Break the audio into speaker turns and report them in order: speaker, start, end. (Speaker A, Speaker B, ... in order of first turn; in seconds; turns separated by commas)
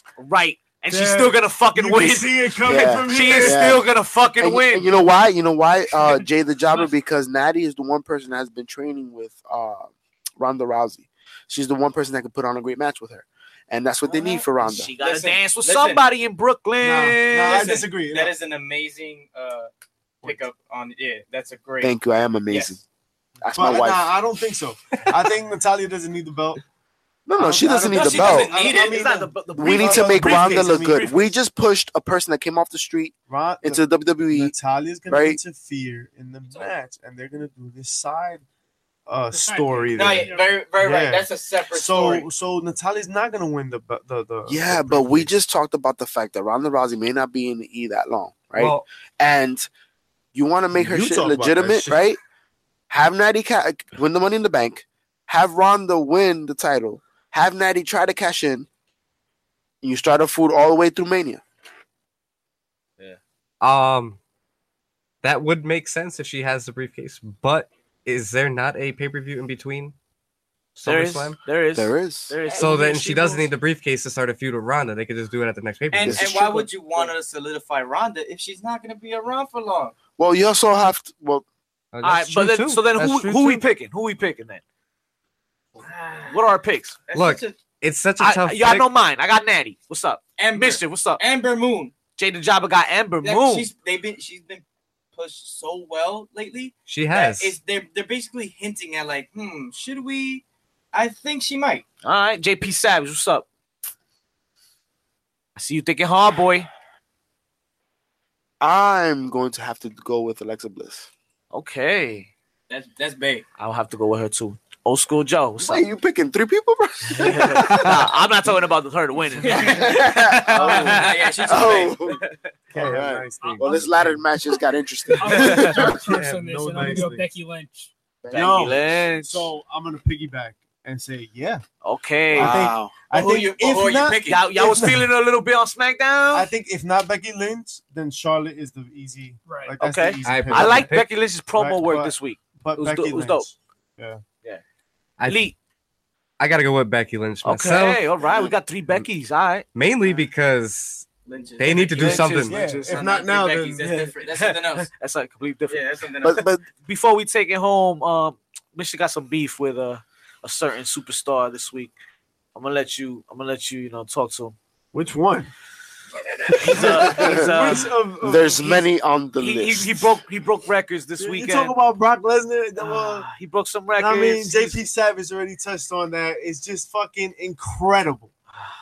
Speaker A: 0.2-2.4, Speaker B: 0.9-3.6, Speaker C: 2.0-3.9, Speaker A: 3.1-4.9, Speaker C: 4.4-14.9, Speaker A: 14.6-17.8, Speaker D: 15.0-16.1, Speaker B: 16.8-18.3, Speaker D: 17.4-19.7, Speaker D: 20.2-22.0, Speaker C: 21.8-22.8, Speaker D: 22.5-22.8, Speaker C: 23.4-24.1, Speaker B: 23.6-26.6, Speaker C: 27.3-28.5, Speaker B: 27.4-31.1, Speaker D: 27.9-29.1, Speaker A: 28.4-31.3, Speaker C: 29.6-34.5, Speaker B: 33.3-38.4, Speaker C: 35.1-35.4, Speaker B: 39.1-45.3, Speaker E: 39.3-40.5, Speaker D: 39.9-42.3, Speaker C: 44.5-49.7, Speaker F: 48.6-48.9, Speaker C: 50.3-52.2, Speaker B: 50.7-52.0, Speaker C: 52.9-58.7, Speaker C: 59.8-61.4, Speaker F: 63.6-64.2, Speaker F: 65.2-70.0, Speaker F: 70.8-71.4, Speaker A: 70.9-73.5, Speaker C: 71.7-72.4, Speaker F: 72.5-76.3, Speaker D: 75.9-80.0, Speaker C: 76.0-76.7, Speaker C: 80.2-81.5, Speaker F: 81.9-83.6, Speaker A: 82.0-84.6, Speaker D: 85.8-86.4, Speaker A: 86.3-87.0, Speaker D: 87.1-87.6, Speaker F: 87.1-88.9, Speaker A: 88.2-91.2, Speaker D: 90.4-91.9, Speaker A: 92.2-93.7, Speaker D: 93.2-94.6, Speaker D: 95.2-101.8, Speaker F: 96.9-97.6, Speaker A: 102.0-103.5, Speaker A: 105.6-106.7, Speaker C: 108.6-111.1, Speaker A: 111.5-112.3, Speaker D: 112.7-113.5, Speaker A: 113.6-115.8, Speaker C: 115.6-117.9, Speaker A: 117.2-121.7, Speaker D: 119.4-119.8, Speaker C: 119.5-122.2, Speaker B: 120.5-121.1, Speaker D: 120.7-122.0, Speaker B: 122.7-124.3, Speaker C: 122.7-126.0, Speaker E: 123.4-123.8, Speaker B: 125.1-127.3, Speaker E: 125.2-127.9, Speaker A: 125.3-125.7, Speaker C: 128.2-128.7, Speaker A: 128.3-129.5, Speaker B: 128.3-131.6, Speaker A: 131.8-132.6, Speaker B: 132.3-135.1, Speaker C: 132.3-132.9, Speaker D: 133.1-134.4, Speaker A: 134.3-136.5, Speaker B: 136.3-140.9, Speaker E: 139.5-139.8, Speaker A: 139.8-143.5, Speaker F: 140.2-141.1, Speaker B: 141.6-144.2, Speaker F: 145.2-145.5, Speaker A: 145.3-145.6, Speaker F: 146.4-148.1, Speaker A: 147.4-149.7, Speaker C: 148.2-148.5, Speaker F: 149.7-151.1, Speaker D: 151.3-154.9, Speaker F: 151.6-152.6, Speaker A: 151.9-153.1, Speaker B: 152.4-153.9, Speaker A: 153.8-155.8, Speaker D: 155.7-156.4, Speaker C: 156.2-156.6, Speaker A: 156.8-161.9, Speaker A: 162.6-164.6, Speaker B: 164.9-165.5, Speaker B: 166.5-168.9, Speaker A: 166.5-167.9, Speaker C: 166.8-170.1, Speaker A: 169.4-171.8, Speaker B: 171.2-173.3, Speaker A: 172.8-174.8, Speaker B: 174.0-178.3